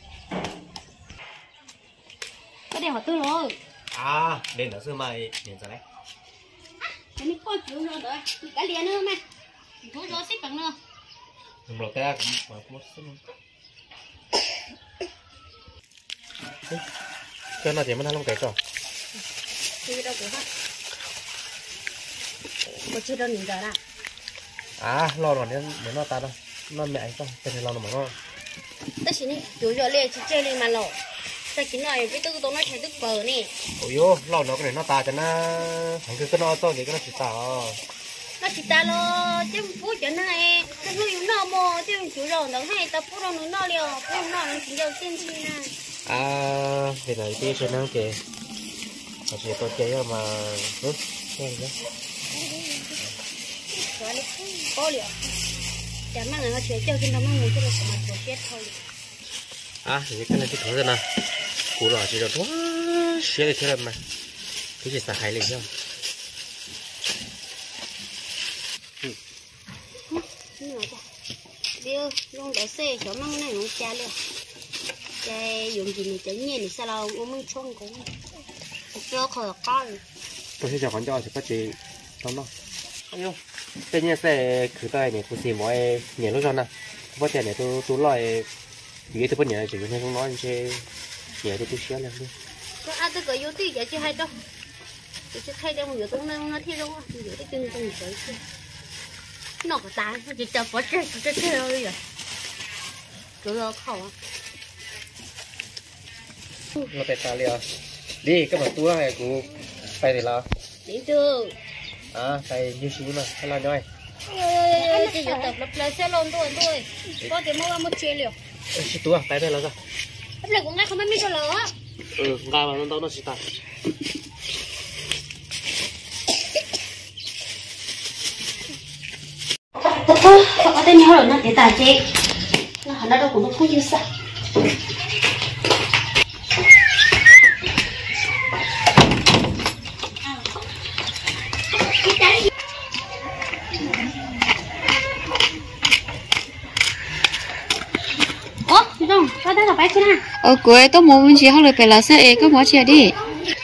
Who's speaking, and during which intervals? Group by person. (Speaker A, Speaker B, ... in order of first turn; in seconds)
Speaker A: 2.7-3.6, 7.2-9.2, 9.9-10.8, 19.9-20.5, 22.9-23.8, 29.0-31.0, 31.5-33.5, 38.4-45.7, 54.0-55.3, 56.1-58.8, 70.1-71.0, 71.8-74.2, 75.2-78.1, 79.0-80.0, 92.8-94.3, 95.3-98.4, 99.6-102.0, 103.4-104.1, 110.9-111.5, 114.3-118.3, 120.4-121.7, 130.1-132.0, 132.8-134.0, 148.7-150.2
Speaker B: 3.9-5.8, 11.7-13.2, 17.6-18.6, 24.8-28.1, 33.8-37.8, 46.0-48.2, 49.3-51.7, 59.9-61.0, 61.8-64.0, 64.8-65.7, 80.6-82.5, 83.1-83.4, 83.9-88.5, 89.1-90.8, 91.4-92.3, 106.8-107.7, 108.2-110.5, 112.1-113.8, 118.8-119.8, 122.2-123.4
Speaker C: 150.4-153.2